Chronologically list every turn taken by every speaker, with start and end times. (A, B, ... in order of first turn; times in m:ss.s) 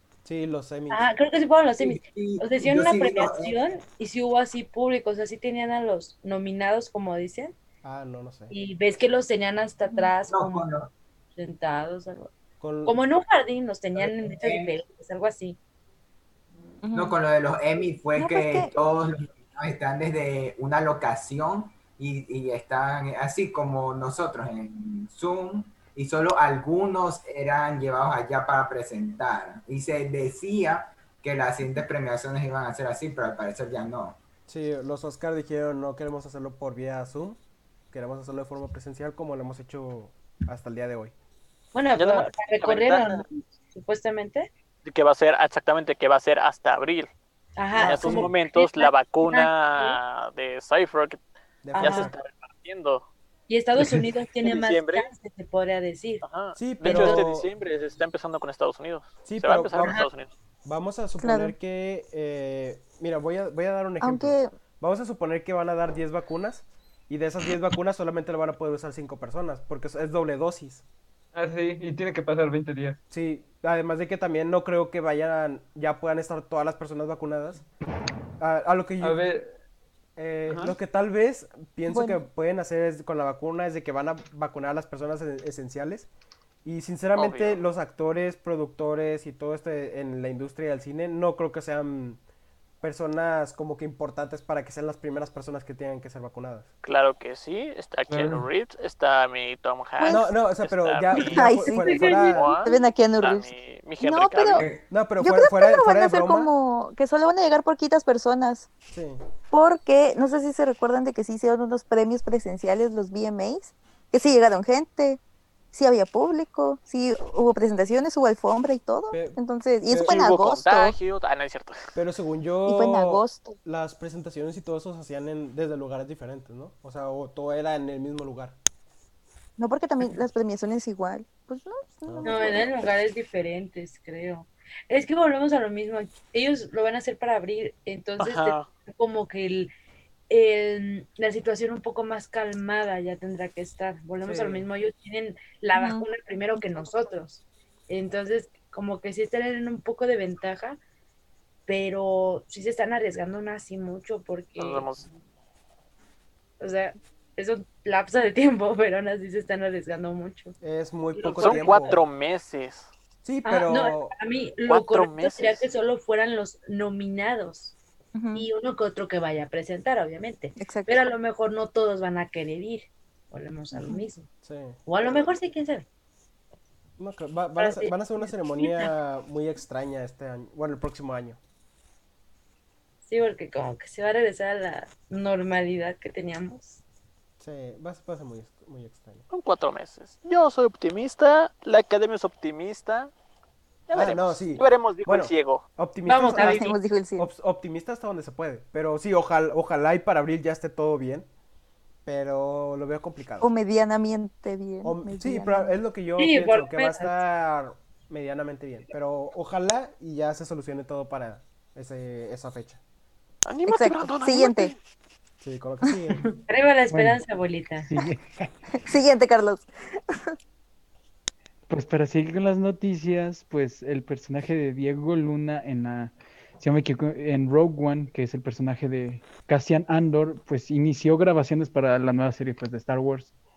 0:00.2-0:01.0 A
0:00.9-0:07.5 B
0:01.8-0:03.6 C
0:07.8-0:08.5 A
0:08.5-0:10.7 B
0:10.2-0:10.9 C
0:11.3-0:12.3 B
0:12.6-0:13.0 A
0:12.8-0:15.6 B
0:14.0-0:14.8 C
0:16.8-0:17.2 D
0:16.9-0:34.2 C
0:18.2-0:18.7 D
0:34.5-0:37.4 A
0:37.9-0:41.1 A
0:41.7-0:44.5 B
0:42.0-0:43.2 E
0:44.8-0:47.1 E
0:47.6-0:50.0 B
0:47.8-0:51.2 E
0:47.9-0:48.3 A
0:51.6-0:52.1 A
0:51.8-0:52.1 B
0:51.8-0:53.0 E
0:53.5-0:56.2 B
0:54.4-0:55.1 E
0:56.2-1:00.3 E
0:56.6-0:57.5 A
0:56.8-0:57.3 B
0:59.2-1:00.0 A
0:59.8-1:00.1 B
1:00.6-1:10.8 A
1:01.2-1:01.5 D
1:04.0-1:04.5 D
1:11.3-1:13.0 F
1:13.1-1:17.6 A
1:18.4-1:19.2 A
1:19.0-1:19.5 F
1:20.2-1:26.1 A
1:20.5-1:20.8 F
1:21.9-1:22.2 D
1:26.6-1:32.2 A
1:27.2-1:27.6 E
1:32.8-1:36.7 A
1:36.8-1:41.5 E
1:38.1-1:38.4 F
1:40.0-1:40.4 D
1:40.1-1:42.6 A
1:41.1-1:42.1 D
1:41.6-1:42.7 B
1:42.1-1:44.7 E
1:42.6-1:44.7 D
1:44.9-1:46.5 A
1:45.2-1:48.7 D
1:48.9-1:49.2 A
1:49.5-1:55.2 D
1:55.7-2:01.0 D
1:59.1-2:00.2 A
2:00.0-2:01.9 E
2:01.9-2:08.6 A
2:02.7-2:03.6 D
2:09.6-2:12.7 D
2:12.0-2:12.7 A
2:12.2-2:19.7 B
2:18.2-2:18.7 E
2:20.3-2:30.8 B
2:24.3-2:24.6 E
2:25.7-2:26.6 D
2:31.7-2:34.9 B
2:34.6-2:35.1 E
2:36.6-2:40.5 B
2:40.6-2:42.0 A
2:41.1-2:42.0 B
2:41.2-2:42.9 E
2:43.2-2:44.1 A
2:43.4-2:47.8 B
2:44.7-2:45.7 E
2:48.1-2:48.5 D
2:48.3-2:54.3 B
2:50.6-2:51.0 D
2:53.7-2:54.0 D
2:54.4-2:55.2 A
2:54.8-2:55.8 B
2:57.0-3:01.4 A
2:57.6-2:58.8 B
3:03.0-3:06.8 B
3:07.4-3:09.2 A
3:09.3-3:13.1 E
3:13.9-3:15.6 E
3:13.9-3:21.3 A
3:16.0-3:16.7 B
3:16.3-3:17.3 D
3:22.0-3:23.5 A
3:23.4-3:25.7 D
3:24.8-3:32.8 A
3:26.2-3:27.1 B
3:33.4-3:34.8 E
3:33.6-3:34.7 D
3:35.4-3:36.2 A
3:36.5-3:37.9 B
3:36.9-3:37.2 G
3:37.8-3:38.5 G
3:38.8-3:40.3 D
3:41.7-3:53.3 G